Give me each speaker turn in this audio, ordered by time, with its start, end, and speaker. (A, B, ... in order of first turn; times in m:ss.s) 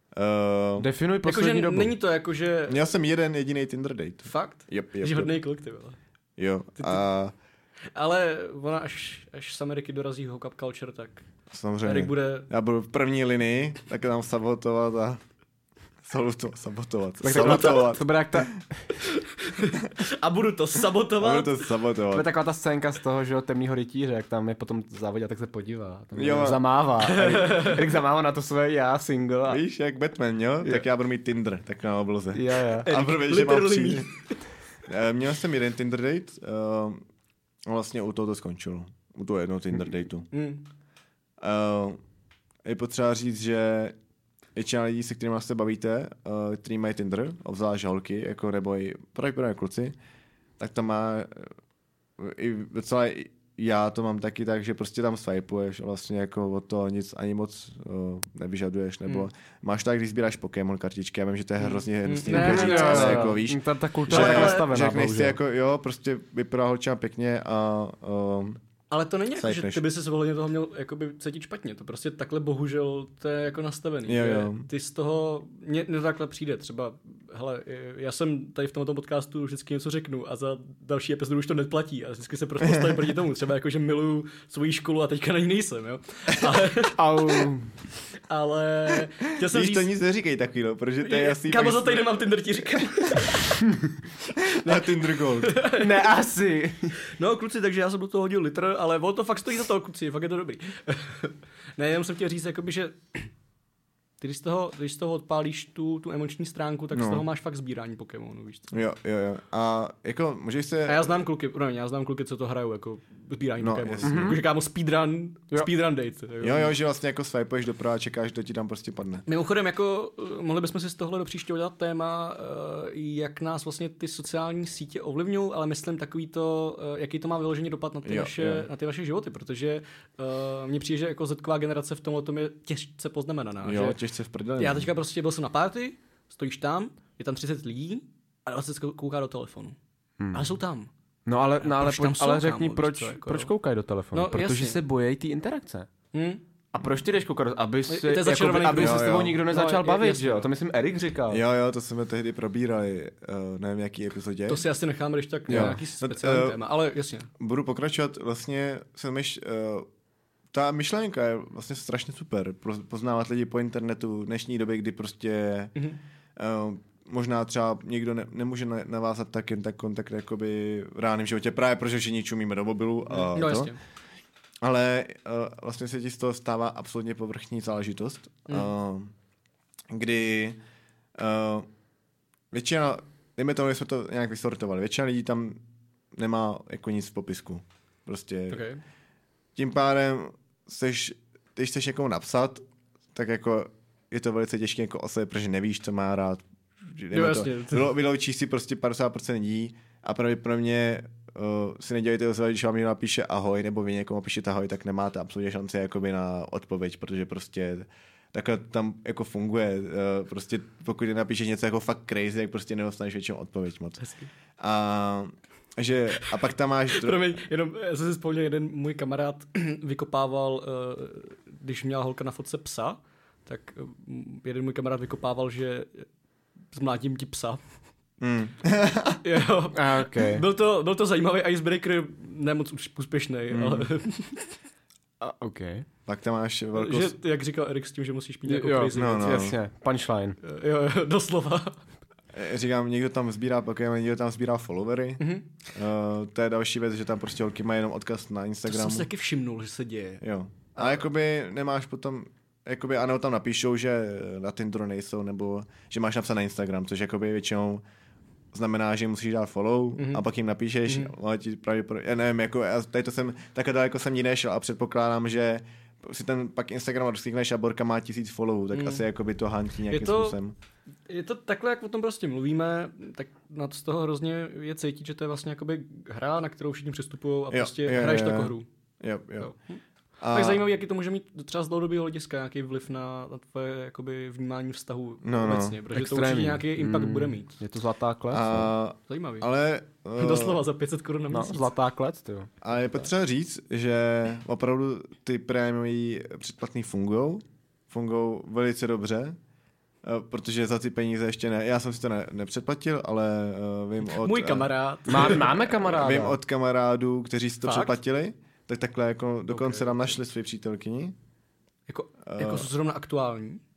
0:00.1-0:00.9 A
0:00.8-0:01.9 B
0:01.2-0:02.8 C
0:02.7-0:05.3 A
0:04.2-0:06.0 C
0:06.4-0:07.3 A
0:06.8-0:07.0 C
0:07.9-0:11.3 C
0:11.5-0:15.2 A
0:11.8-0:12.5 C
0:16.0-0:18.5 A
0:17.2-0:19.0 B
0:19.0-0:21.7 C
0:21.2-0:22.3 A
0:22.1-0:29.6 B
0:26.1-0:26.6 A
0:27.0-0:27.9 C
0:29.5-0:34.1 A
0:32.3-0:32.9 B
0:32.8-0:34.3 C
0:34.9-0:37.0 A
0:37.6-0:40.3 A
0:40.3-0:40.6 C
0:41.4-0:42.0 A
0:42.6-0:43.9 A
0:44.6-0:49.9 A
0:50.6-0:51.5 A
0:52.2-1:08.6 A
1:01.6-1:03.4 C
1:02.3-1:05.4 B
1:04.1-1:04.7 C
1:08.9-1:27.5 C
1:09.3-1:09.8 A
1:14.0-1:14.7 A
1:22.6-1:23.0 A
1:27.0-1:27.7 B
1:28.3-1:29.9 C
1:29.4-1:32.1 A
1:31.0-1:33.6 C
1:34.4-1:36.0 C
1:34.4-1:35.6 A
1:35.7-1:37.0 B
1:37.1-1:43.3 C
1:44.2-1:48.7 C
1:46.9-1:47.2 A
1:48.7-1:51.0 A
1:50.8-1:56.7 C
1:53.6-1:54.4 A
1:54.0-1:54.4 B
1:56.4-1:59.2 A
1:59.3-2:14.0 C
2:08.0-2:08.7 A
2:13.6-2:14.9 A
2:14.6-2:19.8 C
2:20.2-2:20.6 B
2:20.3-2:20.9 C
2:21.2-2:25.9 B
2:21.6-2:23.5 C
2:24.1-2:24.8 C
2:26.1-2:26.4 C
2:26.7-2:31.4 B
2:27.9-2:30.5 C
2:28.8-2:29.4 A
2:31.3-2:34.6 A
2:34.5-2:37.3 C
2:35.5-2:35.8 B
2:35.5-2:36.6 A
2:37.4-2:39.9 A
2:40.5-2:45.7 A
2:46.4-2:53.7 A
2:53.1-2:53.8 C
2:54.6-2:59.1 A
2:59.9-3:00.6 A
3:01.2-3:01.7 A
3:02.5-3:05.6 A
3:06.1-3:08.6 A
3:08.5-3:08.8 C
3:09.6-3:12.6 A
3:13.1-3:34.0 A
3:17.1-3:17.9 C
3:34.0-3:34.3 C
3:34.6-3:37.2 A
3:36.9-3:46.1 C
3:46.7-3:47.6 C
3:48.2-3:49.2 A
3:49.2-3:54.6 C
3:49.7-3:50.4 B
3:53.5-3:53.9 A
3:55.2-3:55.8 B
3:56.0-3:57.1 A
3:56.8-3:59.5 C
3:58.4-4:00.4 B
3:58.9-3:59.6 A
4:00.4-4:01.8 C
4:02.3-4:09.1 A
4:05.2-4:05.5 C
4:08.7-4:10.2 C
4:10.2-4:17.8 A
4:18.5-4:30.5 A
4:20.0-4:20.2 C
4:20.9-4:21.1 C
4:28.7-4:29.0 C
4:29.9-4:30.4 C
4:31.1-4:38.6 C
4:37.5-4:39.5 A
4:39.4-4:47.6 C
4:40.2-4:40.6 A
4:45.2-4:45.8 A
4:45.9-4:48.7 B
4:48.3-4:50.6 A
4:49.1-4:49.5 C
4:50.2-4:51.7 C
4:51.3-4:52.6 B
4:52.6-4:59.4 A
5:00.0-5:11.1 A
5:04.0-5:05.6 C
5:05.1-5:06.4 B
5:07.6-5:08.0 C
5:09.5-5:10.1 C
5:11.9-5:13.6 C
5:12.2-5:12.7 A